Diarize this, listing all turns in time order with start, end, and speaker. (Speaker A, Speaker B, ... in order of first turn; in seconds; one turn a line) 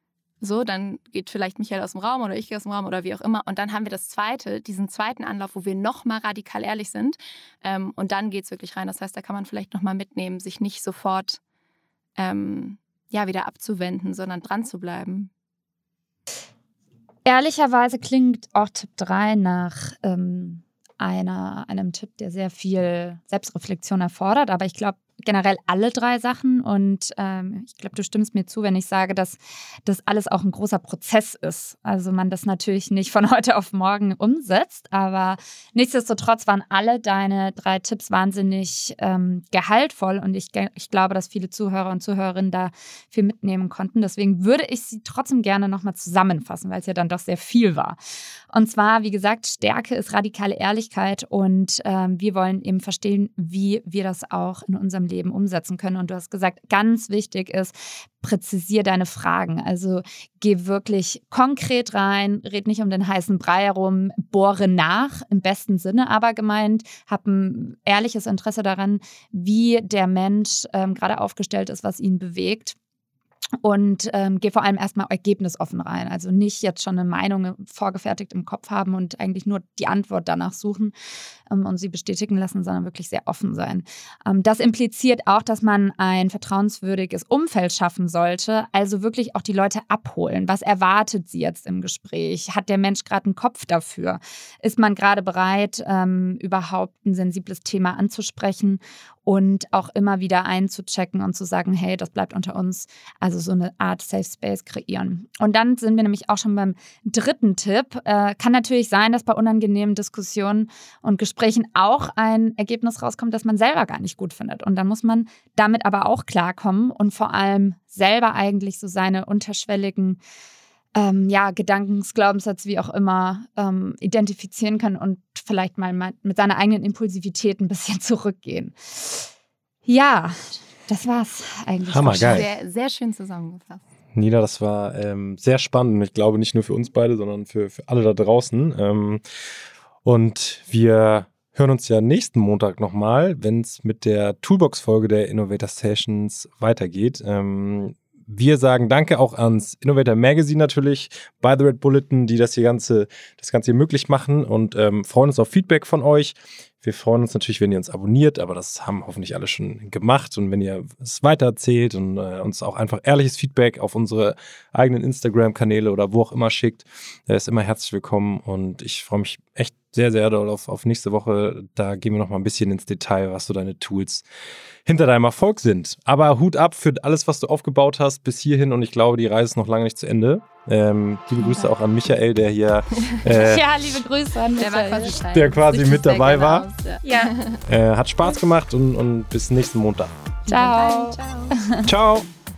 Speaker A: 0.4-11.4
Speaker A: 12.2-15.3
Speaker B: 17.2-48.0
Speaker B: 48.5-72.8
Speaker B: 73.6-80.9
Speaker B: 81.5-120.2
Speaker B: 120.9-129.3
Speaker B: 129.8-132.4
Speaker C: 131.9-132.4
Speaker A: 132.2-133.8
Speaker C: 134.1-139.2
Speaker C: 140.0-174.2
Speaker C: 174.8-183.7
Speaker A: 181.4-181.7
Speaker B: 183.4-185.2
Speaker A: 184.6-187.6
Speaker C: 185.3-186.7
Speaker B: 187.0-187.3
Speaker C: 187.7-190.1
Speaker A: 190.4-191.6
Speaker B: 190.5-191.9
Speaker C: 191.8-192.3